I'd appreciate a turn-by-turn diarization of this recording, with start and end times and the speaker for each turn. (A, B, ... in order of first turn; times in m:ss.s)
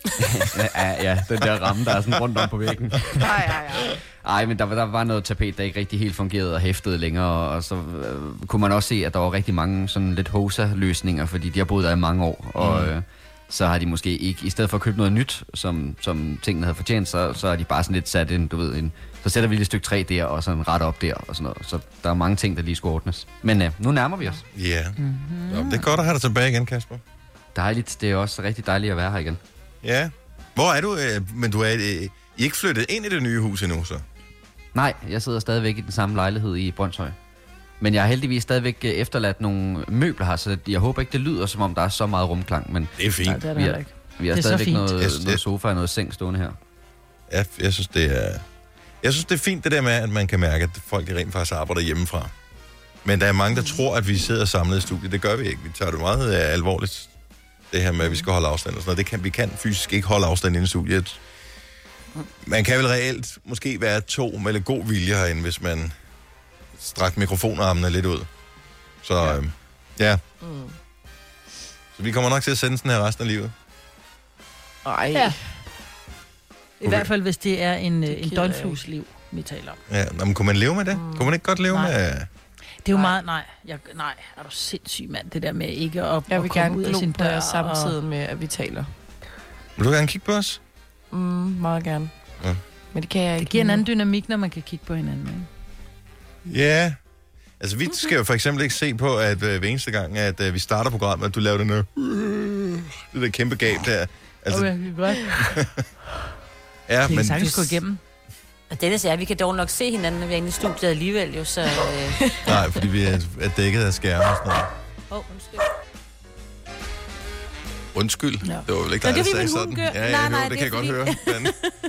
0:00.2-0:03.4 A
0:01.8-0:02.1 B
0:03.2-0:03.9 C
0:04.2-0:24.4 A
0:12.6-0:12.9 B
0:24.5-0:25.0 B
0:25.0-0:25.9 D
0:25.5-0:27.0 B
0:27.5-0:29.4 A
0:29.8-0:34.0 B
0:34.7-0:37.2 A
0:37.8-0:43.0 A
0:43.0-0:43.4 B
0:43.2-0:44.9 D
0:43.5-0:46.6 A
0:45.0-0:45.4 B
0:47.3-0:48.4 B
0:49.0-0:52.3 B
0:53.0-0:57.1 B
0:57.7-1:01.2 B
1:02.4-1:05.9 B
1:06.8-1:08.3 B
1:09.0-1:10.2 B
1:10.4-1:10.7 C
1:11.9-1:13.5 B
1:14.8-1:15.4 C
1:16.8-1:19.8 D
1:18.1-1:18.8 C
1:19.9-1:22.3 B
1:20.9-1:21.3 C
1:22.8-1:28.0 D
1:26.3-1:28.9 C
1:29.8-1:30.6 B
1:31.1-1:32.1 C
1:32.9-1:33.8 C
1:33.4-1:35.5 D
1:36.4-1:37.0 B
1:37.6-1:44.7 B
1:44.5-1:45.4 D
1:45.4-1:45.8 B
1:46.9-1:47.8 B
1:47.1-1:48.0 D
1:48.7-1:52.2 E
1:52.4-1:54.7 B
1:55.1-1:55.7 E
1:57.9-2:01.5 B
1:59.0-2:01.7 E